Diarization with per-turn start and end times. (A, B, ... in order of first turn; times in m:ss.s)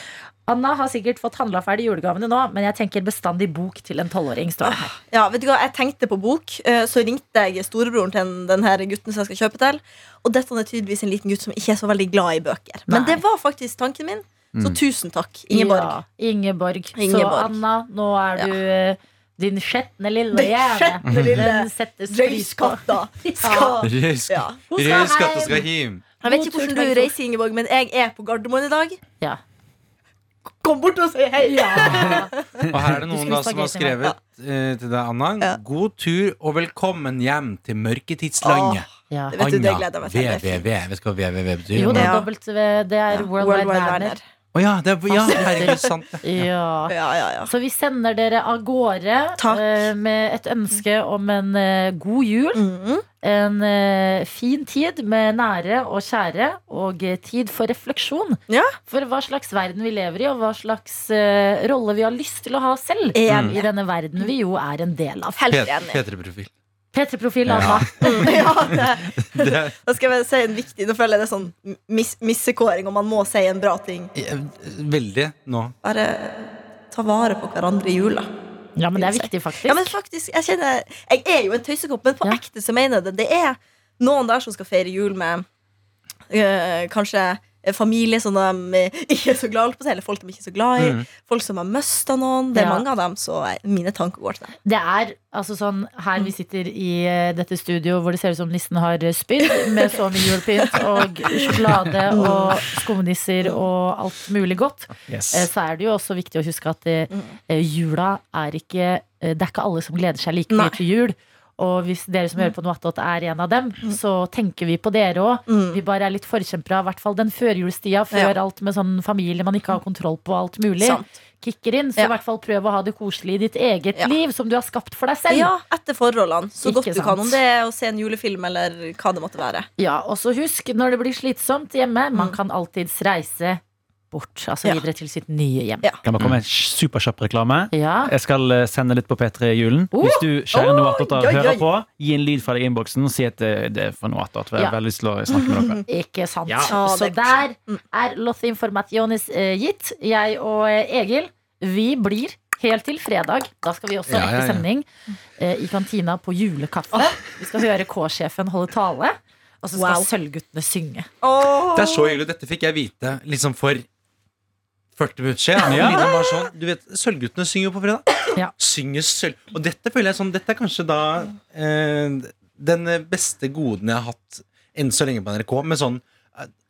0:00.5-0:05.0 A
0:04.6-0:16.0 B
0:12.9-0:13.2 A
0:14.6-0:14.8 C
0:15.5-0:23.9 A
0:17.0-0:17.6 B
0:20.3-0:24.6 B
0:23.8-0:24.5 C
0:24.7-0:25.7 A
0:24.8-0:26.0 D
0:26.2-0:27.1 A
0:26.2-0:29.0 B
0:30.6-0:32.4 B
0:31.4-0:32.3 A
0:32.7-0:42.2 D
0:33.1-0:34.1 A
0:38.4-0:40.7 B
0:39.1-0:39.4 A
0:41.7-0:44.2 A
0:41.9-0:42.3 B
0:43.1-0:44.2 B
0:44.5-0:46.2 D
0:45.1-0:52.6 A
0:45.3-0:45.9 B
0:46.9-0:47.5 B
0:49.4-0:49.9 B
0:52.6-0:53.0 B
0:53.2-1:05.5 A
0:58.5-0:58.8 B
1:03.1-1:03.7 B
1:03.3-1:03.6 D
1:05.4-1:06.0 B
1:05.5-1:06.5 D
1:06.9-1:08.5 A
1:07.5-1:07.9 C
1:08.0-1:14.1 B
1:08.9-1:09.8 D
1:14.2-1:15.7 D
1:15.8-1:18.3 B
1:18.8-1:20.0 A
1:19.0-1:25.5 B
1:26.3-1:34.6 B
1:30.8-1:31.1 D
1:32.5-1:32.8 A
1:34.6-2:05.5 A
1:39.6-1:39.9 B
1:40.6-1:41.6 B
1:42.1-1:42.6 B
1:45.1-1:45.5 C
1:50.5-1:50.8 B
1:55.5-1:55.8 B
2:00.8-2:01.1 B
2:05.3-2:09.7 B
2:06.6-2:07.4 A
2:09.8-2:15.9 A
2:16.0-2:25.8 C
2:17.7-2:18.1 A
2:19.9-2:20.2 A
2:20.5-2:21.6 B
2:25.3-2:25.8 B
2:25.9-2:34.9 A
2:26.5-2:26.7 C
2:26.7-2:27.8 B
2:34.1-2:34.6 D
2:35.4-2:41.1 A
2:39.8-2:40.1 B
2:41.2-2:42.2 B
2:41.7-2:43.9 D
2:45.0-2:56.5 D
2:45.6-2:46.1 C